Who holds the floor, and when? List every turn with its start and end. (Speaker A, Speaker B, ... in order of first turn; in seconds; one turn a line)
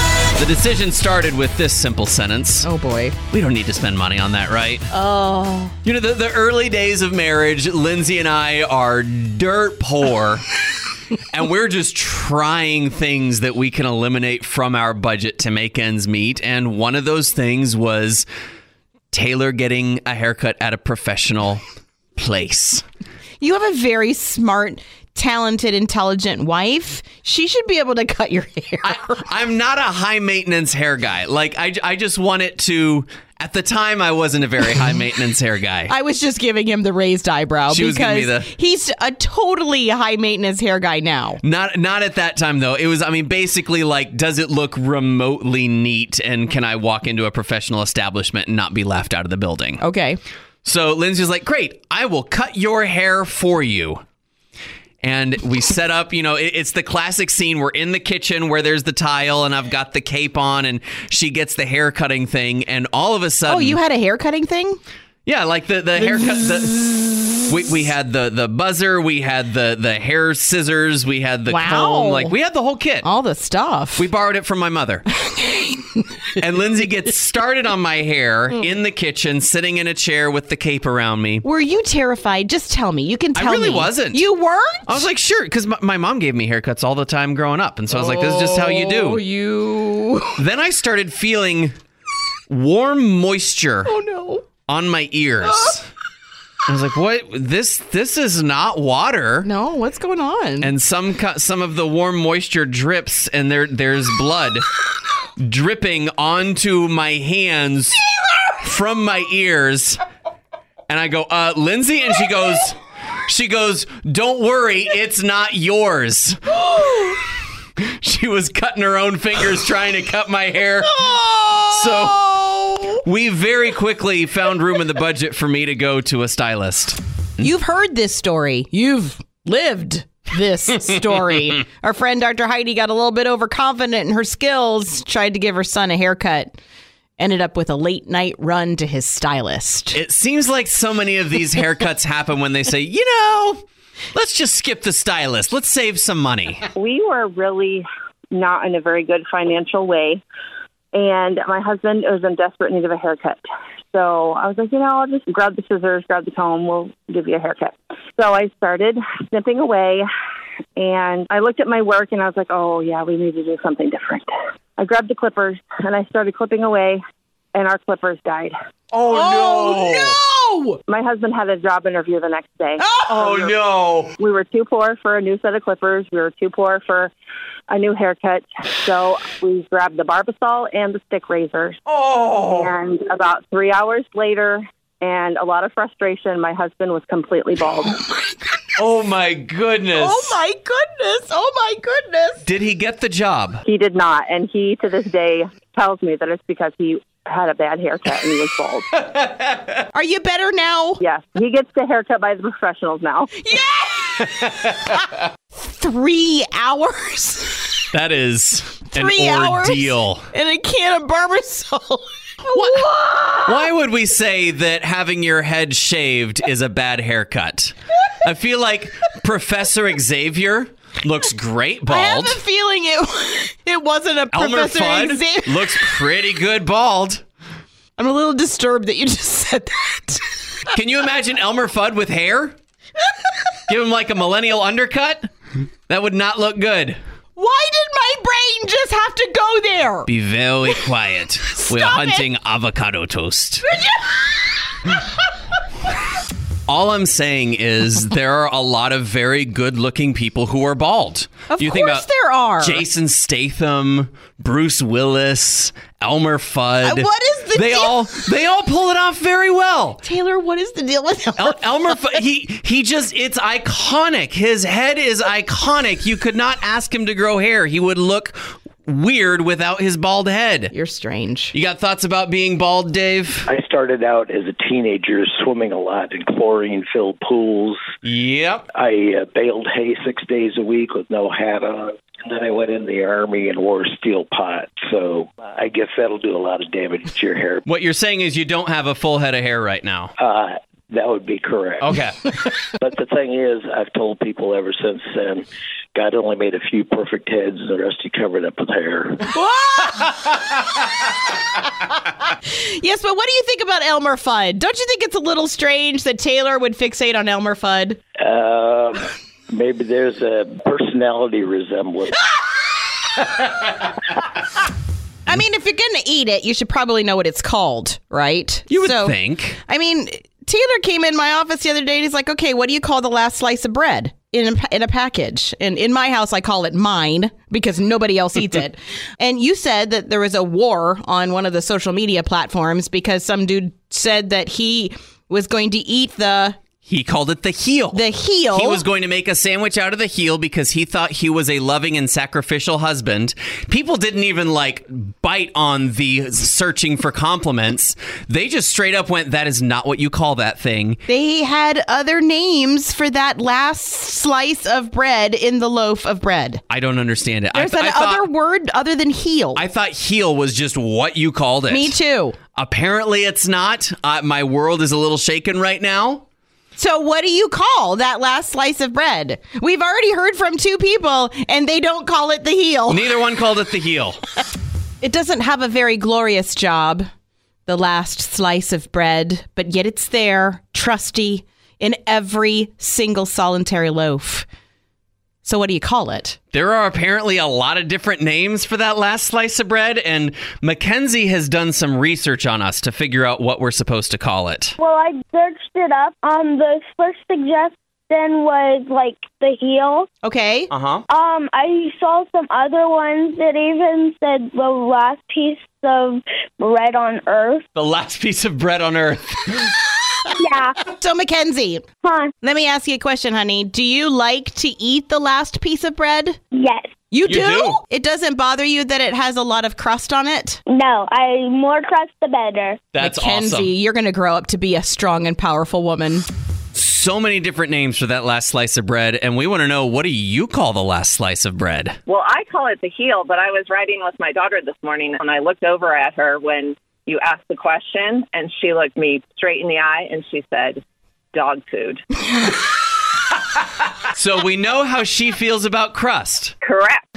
Speaker A: 0.3-2.7
Speaker B: 2.6-3.2
Speaker A: 3.3-4.9
Speaker B: 4.9-5.8
Speaker A: 5.8-10.4
Speaker A: 11.3-18.2
Speaker A: 19.1-21.6
Speaker A: 22.1-22.8
Speaker B: 23.4-29.3
Speaker A: 28.8-35.9
Speaker B: 35.9-41.4
Speaker A: 37.7-38.5
Speaker A: 41.4-49.8
Speaker B: 49.8-50.2
Speaker A: 50.6-54.0
Speaker A: 55.0-63.8
Speaker B: 63.5-64.8
Speaker A: 65.2-66.9
Speaker B: 66.1-67.2
Speaker A: 67.5-73.1
Speaker B: 71.5-72.3
Speaker B: 73.0-74.0
Speaker A: 74.0-75.0
Speaker B: 75.3-76.0
Speaker A: 76.4-81.4
Speaker B: 81.4-85.0
Speaker A: 83.3-84.2
Speaker A: 84.8-89.2
Speaker B: 87.9-90.4
Speaker A: 90.4-91.8
Speaker A: 92.5-93.9
Speaker B: 93.8-94.4
Speaker A: 94.7-95.8
Speaker B: 95.4-95.8
Speaker A: 96.7-99.5
Speaker B: 99.4-100.7
Speaker A: 100.6-104.7
Speaker A: 105.4-108.0
Speaker A: 108.6-110.0
Speaker A: 110.9-116.6
Speaker A: 117.8-121.0
Speaker B: 120.9-123.0
Speaker A: 121.7-122.2
Speaker A: 123.0-127.0
Speaker B: 127.4-136.6
Speaker B: 137.2-140.0
Speaker A: 139.9-146.7
Speaker C: 146.8-150.2
Speaker C: 150.9-160.1
Speaker C: 160.8-167.0
Speaker C: 167.5-168.6
Speaker A: 168.9-170.2
Speaker B: 169.1-170.8
Speaker C: 170.9-173.5
Speaker B: 172.8-173.3
Speaker A: 173.1-174.1
Speaker C: 174.2-177.1
Speaker C: 177.7-181.8
Speaker A: 181.9-182.7
Speaker C: 182.5-188.0
Speaker B: 188.0-188.4
Speaker A: 188.8-190.4
Speaker B: 189.9-192.4
Speaker A: 192.4-193.6
Speaker C: 193.7-198.9
Speaker A: 199.1-199.7
Speaker B: 199.9-201.0
Speaker C: 201.0-203.3
Speaker B: 203.4-205.0
Speaker A: 204.4-204.7
Speaker B: 205.5-207.8
Speaker A: 207.9-210.2
Speaker B: 208.9-213.7
Speaker A: 212.5-212.8
Speaker A: 213.4-222.4
Speaker B: 221.9-225.9
Speaker A: 224.3-227.2
Speaker B: 228.0-230.2
Speaker A: 230.7-232.6
Speaker A: 233.7-235.3
Speaker A: 235.9-237.0
Speaker B: 237.3-240.1
Speaker A: 240.1-243.7
Speaker B: 241.6-242.2
Speaker B: 243.6-244.2
Speaker A: 246.7-252.1
Speaker B: 251.5-252.8
Speaker A: 252.6-260.0
Speaker B: 256.8-258.1
Speaker B: 260.0-261.9
Speaker A: 261.4-270.7
Speaker B: 270.7-271.5
Speaker A: 271.5-273.5
Speaker D: 273.5-277.8
Speaker A: 278.0-278.6
Speaker D: 278.7-287.6
Speaker A: 287.7-290.1
Speaker D: 290.2-291.9
Speaker A: 291.8-292.2
Speaker D: 292.8-299.3
Speaker B: 299.4-300.1
Speaker B: 302.5-308.0
Speaker D: 308.2-312.3
Speaker B: 315.3-336.6
Speaker A: 318.7-319.6
Speaker A: 336.8-351.0
Speaker B: 337.9-338.8
Speaker B: 351.1-356.6
Speaker A: 356.7-358.3
Speaker B: 357.5-359.6
Speaker A: 359.6-361.9
Speaker B: 361.7-362.4
Speaker A: 362.6-366.2
Speaker B: 366.8-373.1
Speaker A: 372.9-374.2
Speaker B: 375.0-377.1
Speaker B: 377.7-384.5
Speaker B: 385.4-386.4
Speaker A: 386.5-394.8
Speaker E: 394.8-400.1
Speaker B: 400.2-400.7
Speaker A: 400.7-401.0
Speaker E: 401.1-407.7
Speaker A: 407.8-409.8
Speaker E: 410.4-410.8
Speaker B: 410.8-411.9
Speaker E: 412.0-412.3
Speaker B: 412.4-416.4
Speaker E: 416.5-416.9
Speaker B: 417.1-420.6
Speaker A: 417.2-417.8
Speaker E: 420.7-422.8
Speaker A: 422.9-423.7
Speaker B: 423.0-426.3
Speaker A: 426.7-432.0
Speaker F: 432.1-440.8
Speaker F: 441.3-442.1
Speaker A: 444.0-446.6
Speaker F: 446.6-447.1